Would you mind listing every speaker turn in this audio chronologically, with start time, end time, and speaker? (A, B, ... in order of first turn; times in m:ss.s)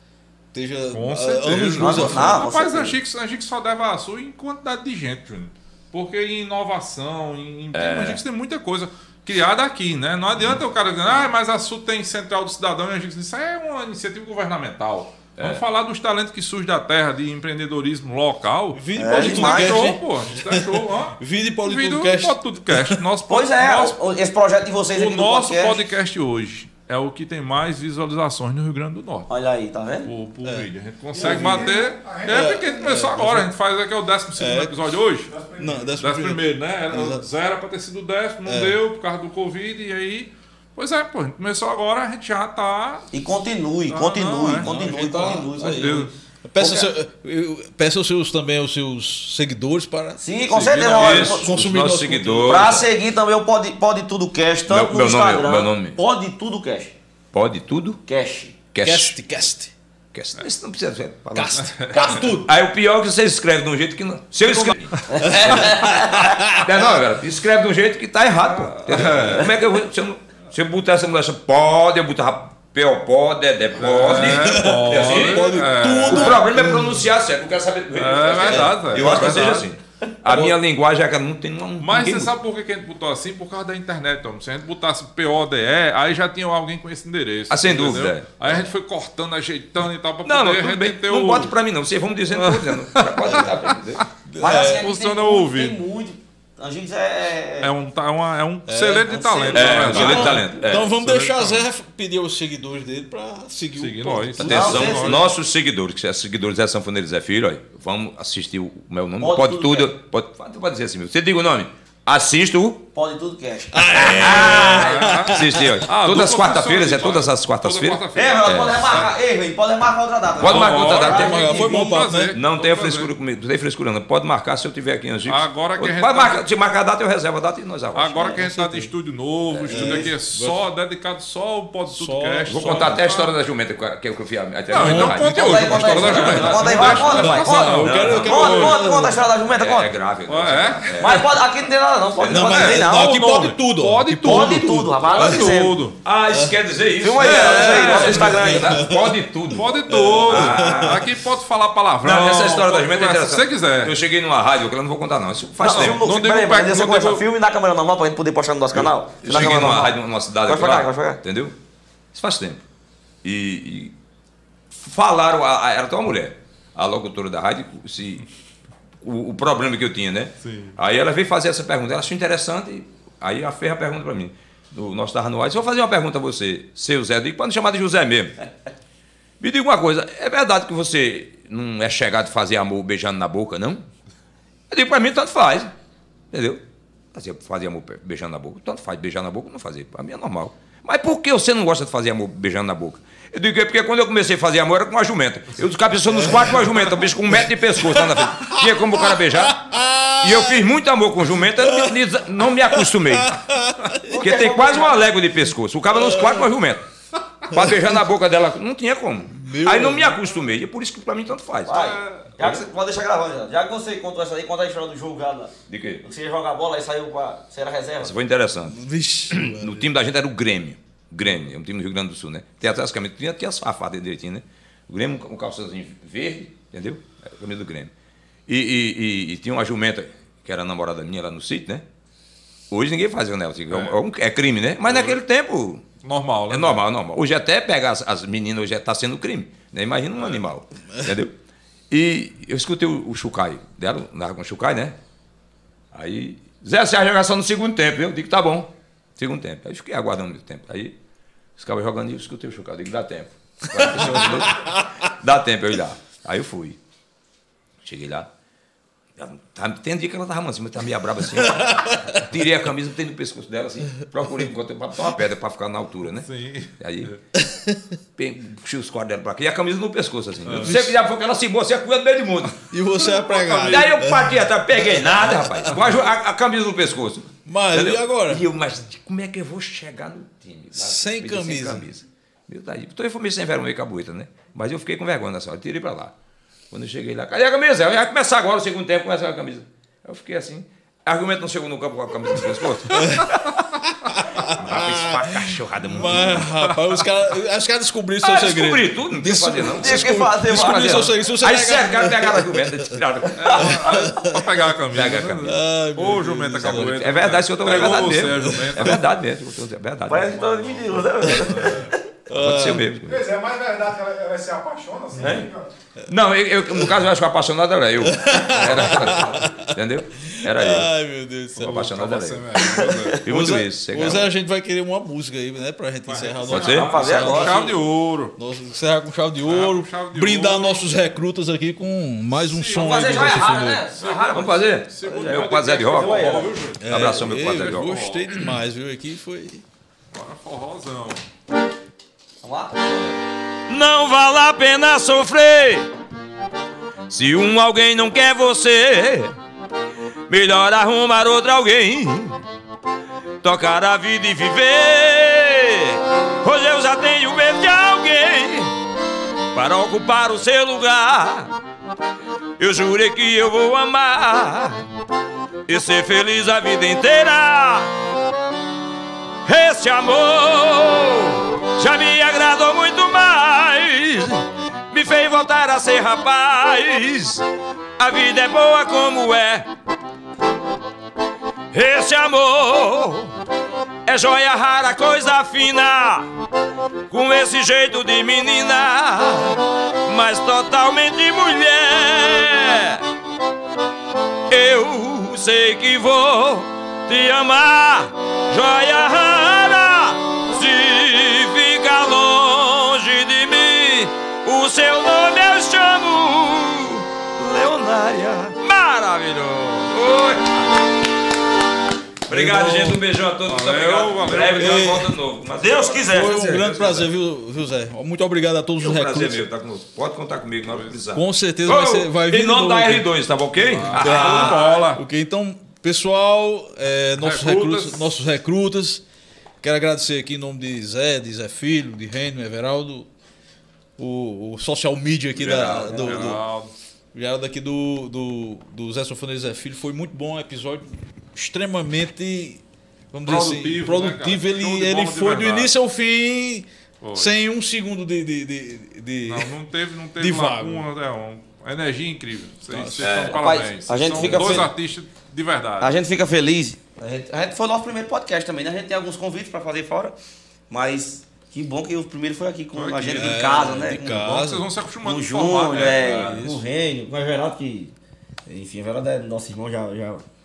0:00.5-0:02.4 A
0:00.9-0:24.0 B
0:01.8-0:03.0 C
0:07.7-0:08.2 D
0:15.4-0:15.6 D
0:18.7-0:23.0 A
0:19.0-0:19.9 C
0:23.3-0:25.8 C
0:24.9-0:29.3 B
0:29.3-0:30.1 C
0:30.0-0:35.3 B
0:31.1-0:32.7 E
0:31.2-0:31.7 A
0:32.3-0:33.5 A
0:34.4-0:34.9 A
0:35.3-0:36.0 E
0:35.6-0:37.2 A
0:36.0-0:43.1 B
0:38.4-0:38.8 A
0:43.1-0:46.0 C
0:43.9-0:44.7 B
0:44.6-0:50.2 A
0:45.8-0:46.1 B
0:46.6-0:46.9 C
0:50.2-0:51.5 C
0:50.5-0:51.3 B
0:50.9-0:52.7 A
0:51.0-0:52.9 D
0:52.5-0:56.9 C
0:54.7-0:56.0 D
0:57.3-0:58.0 D
0:58.1-0:58.6 C
0:58.7-0:59.2 D
0:58.8-0:59.7 A
1:00.1-1:22.4 D
1:01.4-1:02.5 C
1:01.6-1:02.2 B
1:01.9-1:02.4 A
1:05.1-1:06.6 C
1:05.2-1:06.6 A
1:08.7-1:09.5 B
1:13.8-1:16.5 B
1:14.1-1:17.0 A
1:17.9-1:19.7 B
1:18.4-1:19.6 C
1:18.9-1:19.3 A
1:20.3-1:20.5 A
1:21.8-1:31.5 B
1:27.5-1:28.7 D
1:30.2-1:34.0 D
1:32.3-1:34.0 B
1:33.2-1:33.6 A
1:34.2-1:34.8 A
1:34.4-1:37.7 C
1:34.6-1:35.8 B
1:37.6-1:41.7 B
1:38.7-1:39.2 A
1:39.0-1:40.4 C
1:39.5-1:40.9 D
1:39.8-1:44.8 A
1:43.8-1:45.2 B
1:44.4-1:52.8 D
1:44.4-1:45.2 C
1:49.2-1:49.9 C
1:52.9-1:54.4 C
1:53.7-1:55.8 A
1:53.9-1:59.0 D
1:54.2-1:59.0 B
1:58.1-2:02.0 C
2:00.4-2:01.6 D
2:00.4-2:03.1 B
2:01.0-2:02.3 A
2:02.3-2:08.3 D
2:05.3-2:06.4 B
2:07.9-2:13.3 B
2:08.3-2:08.9 A
2:09.5-2:10.6 A
2:09.7-2:10.1 C
2:11.9-2:13.0 A
2:12.5-2:18.7 D
2:14.7-2:18.8 B
2:14.8-2:19.2 A
2:14.8-2:19.9 C
2:19.4-2:21.4 D
2:20.3-2:21.2 B
2:21.0-2:23.2 C
2:22.2-2:22.5 D
2:22.2-2:25.5 A
2:22.3-2:26.0 B
2:24.2-2:25.8 C
2:26.0-2:29.7 D
2:27.0-2:28.7 C
2:27.2-2:28.4 B
2:28.0-2:31.1 A
2:29.5-2:34.0 B
2:30.2-2:31.0 D
2:32.0-2:36.0 D
2:35.6-2:41.2 C
2:35.6-2:37.2 B
2:38.7-2:41.5 D
2:39.2-2:39.8 B
2:42.1-2:42.6 D
2:43.2-2:43.9 D
2:44.8-2:48.2 D
2:49.0-2:58.4 D
2:50.4-2:50.7 B
2:59.4-3:03.8 D
3:04.7-3:05.7 D
3:06.3-3:06.6 D
3:07.1-3:19.6 D
3:16.2-3:16.5 A
3:17.8-3:20.6 A
3:20.2-3:23.4 D
3:21.6-3:22.0 A
3:22.6-3:24.2 A
3:24.1-3:25.1 C
3:24.1-3:26.8 D
3:26.0-3:26.4 A
3:27.5-3:32.6 D
3:27.5-3:27.9 A
3:29.3-3:30.2 A
3:31.7-3:35.5 C
3:31.7-3:32.3 B
3:35.7-3:36.0 D
3:36.0-3:38.2 C
3:38.0-3:47.9 D
3:38.7-3:39.9 A
3:48.5-3:51.8 D
3:52.7-3:55.8 D
3:53.7-3:54.0 B
3:54.9-3:55.2 B
3:56.0-3:56.8 B
3:56.5-4:01.3 D
4:01.9-4:05.0 D
4:05.9-4:11.0 D
4:11.6-4:16.8 D
4:14.1-4:14.8 A
4:17.8-4:18.3 D
4:19.2-4:27.1 D
4:21.5-4:21.9 A
4:26.2-4:27.2 B
4:27.3-4:27.9 A
4:28.2-4:32.8 D
4:30.4-4:30.8 B
4:30.5-4:31.0 A
4:32.7-4:35.8 A
4:33.0-4:33.9 B
4:33.5-4:46.1 D
4:37.4-4:38.4 A
4:40.7-4:41.8 A
4:46.7-4:53.5 D
4:52.9-5:03.0 A
4:54.5-4:56.6 D
4:56.2-4:56.8 B
4:58.2-5:03.9 D
4:59.7-5:01.1 C
5:03.4-5:09.0 B
5:03.5-5:04.6 A
5:04.9-5:05.6 D
5:05.4-5:07.0 A
5:06.6-5:10.5 D
5:07.6-5:09.0 A
5:10.1-5:11.8 C
5:10.5-5:11.9 B
5:11.3-5:11.7 A
5:12.3-5:13.2 D
5:12.3-5:12.9 A
5:13.0-5:15.7 E
5:15.2-5:15.5 D
5:16.1-5:20.9 D
5:18.0-5:19.7 A
5:18.8-5:19.4 B
5:20.4-5:21.8 A
5:21.6-5:22.6 D
5:21.6-5:23.3 B
5:23.1-5:24.3 D
5:23.3-5:27.7 A
5:26.0-5:28.3 B
5:26.5-5:27.0 D
5:26.6-5:27.8 C
5:28.4-5:33.8 A
5:29.4-5:30.8 B
5:32.3-5:38.4 B
5:32.7-5:36.6 C
5:34.3-5:38.0 D
5:36.8-5:39.6 A
5:40.1-5:41.2 B
5:42.4-5:43.1 C
5:43.7-5:45.9 D
5:47.1-5:49.4 D
5:50.3-5:52.4 D
5:53.4-5:58.7 D
5:59.5-6:01.5 D
6:02.6-6:04.8 D
6:05.6-6:07.9 D
6:09.4-6:17.5 D
6:18.0-6:19.7 D
6:21.7-6:23.3 D
6:24.0-6:26.3 D
6:27.1-6:33.0 D
6:34.5-6:50.8 D
6:52.3-6:57.1 D
6:52.3-6:53.0 A
6:53.4-6:55.0 B
6:54.5-6:55.1 A
6:55.6-6:56.5 C
6:56.0-6:59.4 A
6:58.8-7:04.7 D
7:00.7-7:01.0 B
7:01.1-7:03.1 A
7:03.6-7:05.0 B
7:03.9-7:09.0 A
7:07.2-7:08.1 B
7:09.6-7:13.1 A
7:14.0-7:16.4 A
7:15.3-7:16.4 D
7:15.8-7:16.7 B
7:17.1-7:29.5 A
7:23.2-7:25.7 B
7:27.0-7:27.3 B
7:29.2-7:35.9 B
7:30.2-7:30.8 A
7:32.7-7:33.1 A
7:33.0-7:33.4 D
7:33.2-7:34.7 C
7:34.2-7:34.6 D
7:35.8-7:40.1 C
7:40.7-7:44.0 C
7:42.7-7:46.4 B
7:43.1-7:44.6 A
7:45.0-7:47.9 C
7:45.7-7:46.4 D
7:45.8-7:46.6 A
7:48.4-7:50.2 C